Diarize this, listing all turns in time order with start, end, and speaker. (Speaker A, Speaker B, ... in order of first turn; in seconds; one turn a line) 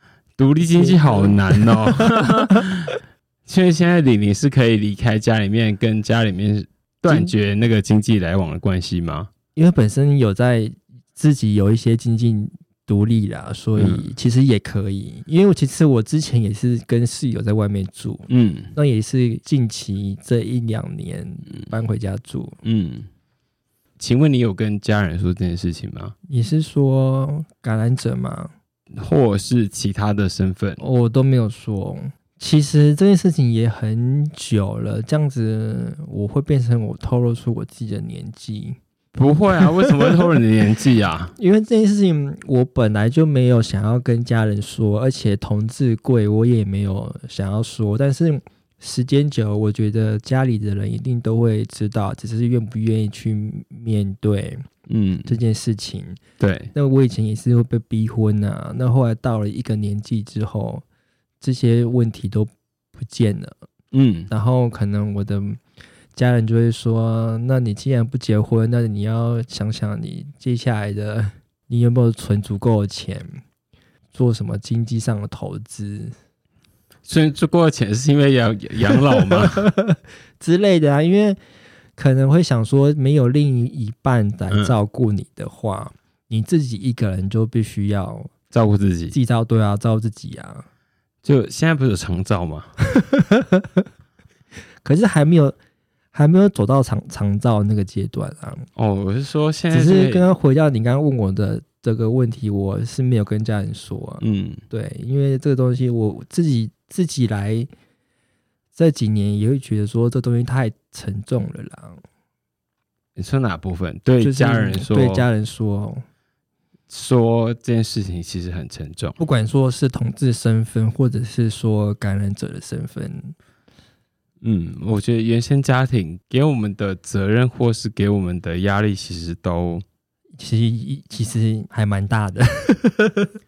Speaker A: 0.4-9.3
Speaker B: 0.8-2.7
Speaker B: 7.1-7.3
Speaker B: 9.6-22.6
Speaker A: 13.8-14.1
Speaker A: 18.3-18.7
Speaker A: 22.6-23.1
Speaker A: 24.0-26.1
Speaker B: 26.3-28.5
Speaker A: 29.0-30.8
Speaker B: 30.8-38.8
Speaker A: 39.1-41.3
Speaker B: 39.6-40.2
Speaker B: 41.4-54.6
Speaker A: 54.9-55.4
Speaker B: 55.3-56.2
Speaker A: 56.4-56.7
Speaker B: 56.7-60.8
Speaker B: 61.4-63.6
Speaker A: 63.9-64.3
Speaker B: 64.3-65.6
Speaker B: 66.2-73.4
Speaker B: 74.1-76.1
Speaker A: 77.1-79.7
Speaker B: 79.0-81.4
Speaker B: 82.0-88.3
Speaker A: 88.5-89.2
Speaker B: 89.1-90.7
Speaker A: 91.2-92.7
Speaker B: 92.9-93.9
Speaker B: 94.8-95.6
Speaker B: 96.1-98.7
Speaker A: 98.8-100.3
Speaker B: 99.7-107.7
Speaker A: 104.2-104.6
Speaker B: 108.8-112.0
Speaker A: 113.2-115.3
Speaker B: 114.2-116.0
Speaker A: 116.9-119.2
Speaker B: 119.2-123.3
Speaker A: 124.4-129.8
Speaker B: 130.4-133.3